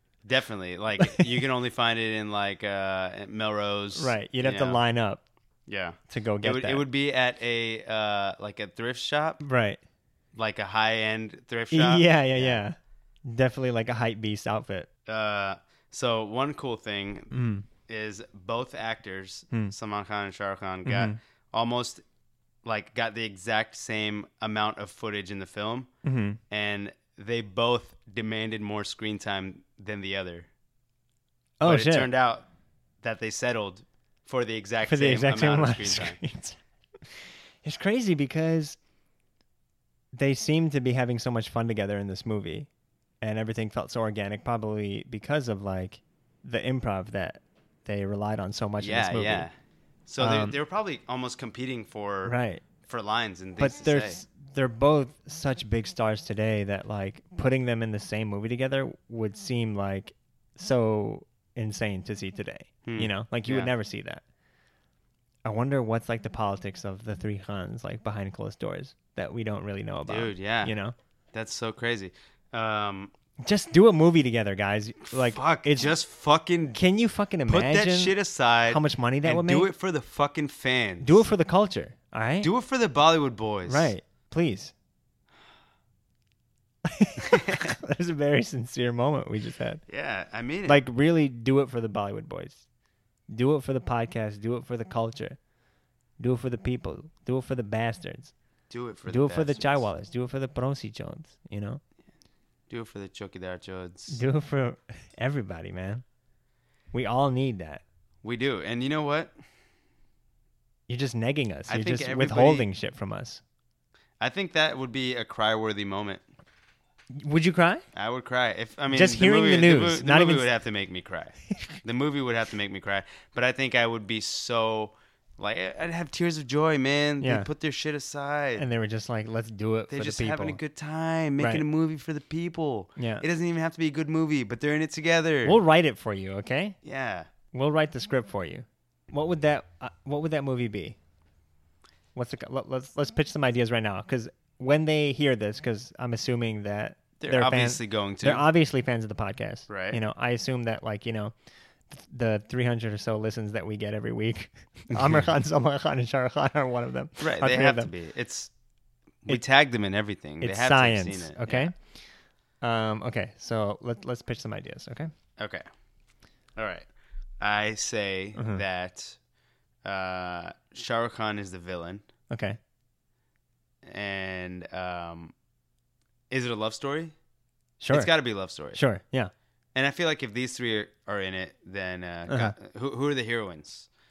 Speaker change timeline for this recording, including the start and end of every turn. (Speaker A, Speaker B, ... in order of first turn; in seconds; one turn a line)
Speaker A: 0.2-4.8
Speaker B: 1.0-1.4
Speaker B: 3.9-5.2
Speaker A: 5.7-9.4
Speaker B: 6.1-6.8
Speaker B: 9.4-9.8
Speaker A: 10.3-12.6
Speaker B: 11.7-14.9
Speaker A: 15.1-17.3
Speaker B: 17.3-17.6
Speaker A: 17.8-22.0
Speaker B: 20.8-21.2
Speaker A: 22.6-25.9
Speaker B: 26.0-26.4
Speaker A: 26.5-30.5
Speaker B: 31.6-32.1
Speaker A: 31.6-32.4
Speaker A: 33.0-36.2
Speaker B: 34.8-36.6
Speaker B: 37.1-38.8
Speaker B: 40.1-42.7
Speaker B: 43.2-49.5
Speaker A: 48.8-49.5
Speaker A: 50.1-54.2
Speaker B: 50.2-50.6
Speaker B: 52.2-52.6
Speaker B: 53.6-64.2
Speaker A: 62.8-63.7
Speaker B: 65.4-70.9
Speaker A: 70.1-70.7
Speaker A: 71.3-73.1
Speaker B: 73.4-75.9
Speaker A: 75.1-76.8
Speaker B: 76.7-79.7
Speaker A: 77.5-81.2
Speaker B: 81.0-82.5
Speaker A: 82.4-83.9
Speaker B: 83.7-84.7
Speaker B: 86.8-89.8
Speaker A: 87.2-87.6
Speaker A: 89.9-90.8
Speaker B: 90.7-92.6
Speaker B: 93.3-95.4
Speaker B: 96.2-98.3
Speaker A: 98.7-99.8
Speaker B: 99.1-101.8
Speaker A: 102.7-104.2
Speaker B: 104.1-106.0
Speaker B: 106.9-107.8
Speaker A: 108.2-109.3
Speaker B: 110.9-113.4
Speaker A: 111.7-112.7
Speaker A: 114.2-116.2
Speaker B: 117.1-117.8
Speaker A: 117.9-128.6
Speaker B: 118.9-120.5
Speaker B: 127.2-127.5
Speaker B: 128.6-130.6
Speaker A: 129.9-135.6
Speaker B: 131.4-131.6
Speaker B: 133.0-133.2
Speaker B: 135.4-136.8
Speaker A: 136.8-137.3
Speaker B: 137.5-141.0
Speaker B: 142.1-151.3
Speaker A: 147.2-148.4
Speaker A: 149.7-150.0
Speaker B: 151.9-157.9
Speaker A: 154.9-155.3
Speaker A: 157.2-158.5
Speaker A: 159.2-161.7
Speaker B: 160.4-161.8
Speaker B: 162.6-165.1
Speaker A: 165.4-165.7
Speaker A: 166.6-166.9
Speaker A: 167.4-169.2
Speaker B: 168.3-168.6
Speaker A: 169.8-172.0
Speaker B: 172.3-172.6
Speaker A: 173.8-175.3
Speaker A: 176.3-177.1
Speaker B: 177.8-178.1
Speaker A: 177.9-178.8
Speaker B: 178.7-179.3
Speaker A: 179.7-183.9
Speaker B: 182.3-182.5